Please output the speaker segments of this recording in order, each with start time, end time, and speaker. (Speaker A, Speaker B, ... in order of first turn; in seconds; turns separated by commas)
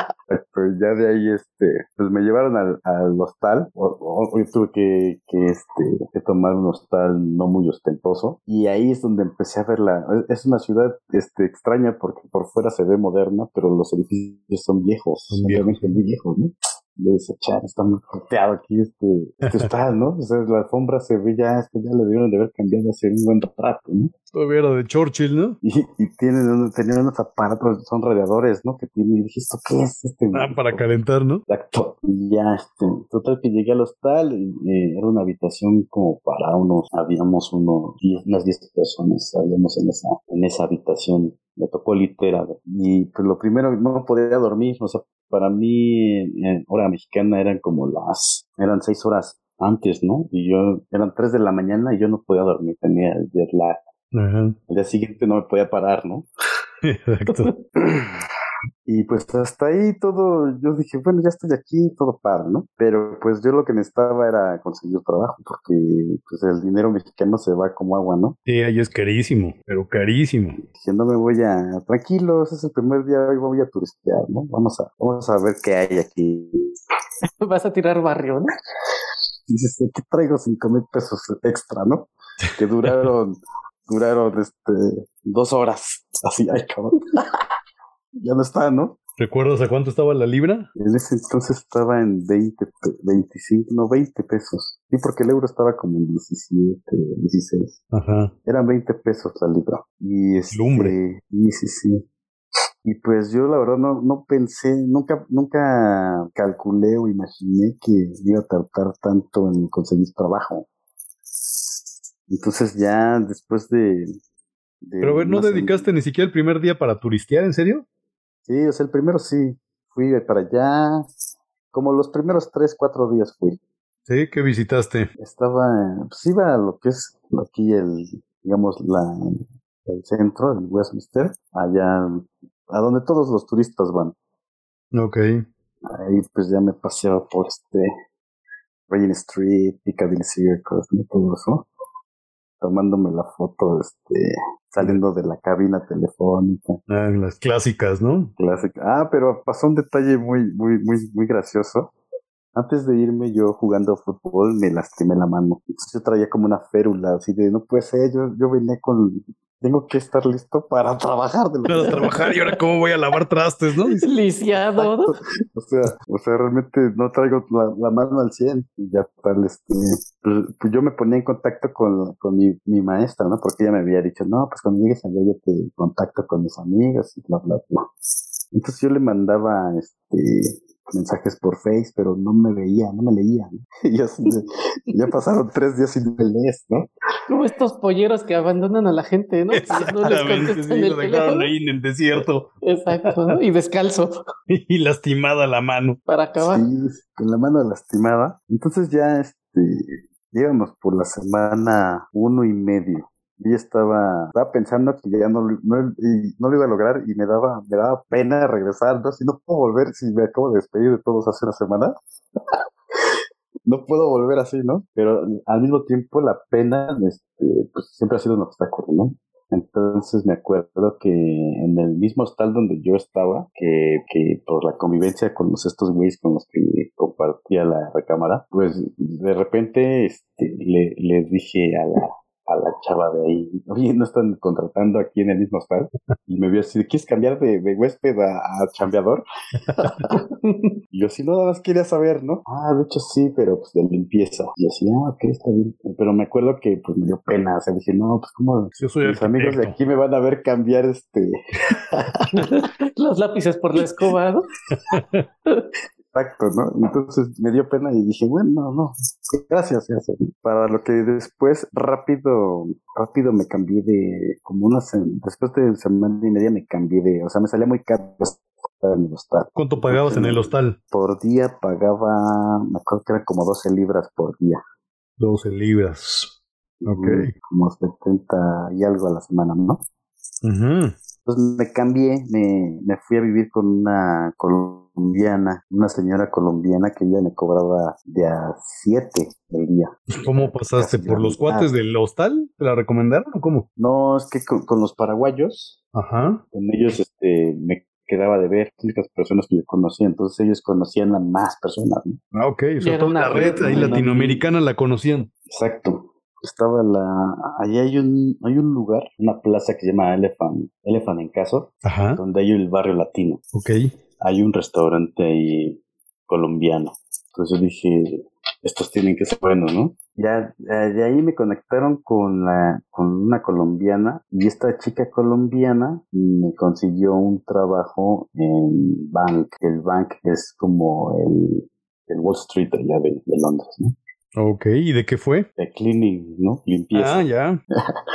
Speaker A: 0.3-24.1, Speaker B: 15.3-16.0, Speaker B: 19.4-19.7, Speaker B: 24.3-25.6, Speaker A: 25.6-30.8, Speaker B: 30.3-31.4, Speaker A: 31.5-53.8, Speaker B: 54.1-54.6, Speaker A: 54.7-56.3, Speaker B: 56.8-57.5, Speaker C: 57.3-57.6, Speaker A: 57.8-58.1, Speaker A: 58.9-68.4, Speaker B: 68.5-70.6, Speaker A: 70.7-76.7, Speaker C: 77.4-78.5, Speaker A: 79.5-87.4, Speaker B: 82.8-83.1, Speaker A: 88.2-89.0, Speaker B: 89.2-90.7, Speaker A: 90.8-97.8, Speaker B: 97.9-98.3, Speaker A: 98.5-102.0, Speaker B: 100.5-101.0, Speaker A: 102.8-110.7, Speaker A: 112.3-114.2, Speaker A: 114.8-115.9, Speaker B: 115.0-117.8, Speaker A: 118.5-121.0, Speaker A: 121.7-123.6, Speaker B: 124.1-125.1, Speaker A: 125.2-134.2, Speaker B: 134.9-135.4, Speaker A: 135.8-137.9, Speaker A: 138.9-141.7, Speaker A: 142.6-146.8, Speaker B: 146.9-148.3, Speaker A: 148.4-151.9, Speaker A: 152.6-162.2, Speaker B: 161.7-164.1, Speaker C: 161.9-162.3, Speaker C: 163.9-165.1, Speaker A: 164.8-177.9, Speaker A: 178.5-186.9, Speaker C: 187.3-191.5, Speaker B: 189.5-193.4, Speaker C: 192.6-194.2, Speaker B: 194.5-196.0, Speaker C: 196.1-196.7, Speaker A: 196.4-212.1, Speaker A: 212.9-239.2, Speaker B: 239.7-240.0, Speaker A: 239.8-240.2, Speaker C: 240.1-240.7, Speaker A: 240.9-252.6, Speaker B: 248.8-249.8, Speaker C: 252.3-254.5, Speaker B: 254.8-255.2, Speaker A: 256.1-274.6, Speaker B: 269.6-270.8, Speaker B: 275.2-276.3, Speaker A: 276.8-279.8, Speaker B: 276.9-277.3, Speaker B: 280.4-280.9, Speaker A: 281.3-291.7, Speaker B: 290.1-293.7, Speaker A: 293.8-295.8, Speaker B: 295.9-296.4, Speaker A: 296.5-302.2, Speaker B: 302.3-305.3, Speaker C: 302.8-304.1, Speaker A: 303.3-304.5, Speaker A: 305.5-313.4, Speaker B: 311.9-312.2, Speaker B: 313.6-313.9, Speaker A: 314.2-334.0, Speaker B: 334.4-335.5, Speaker A: 335.6-337.2, Speaker B: 336.9-337.6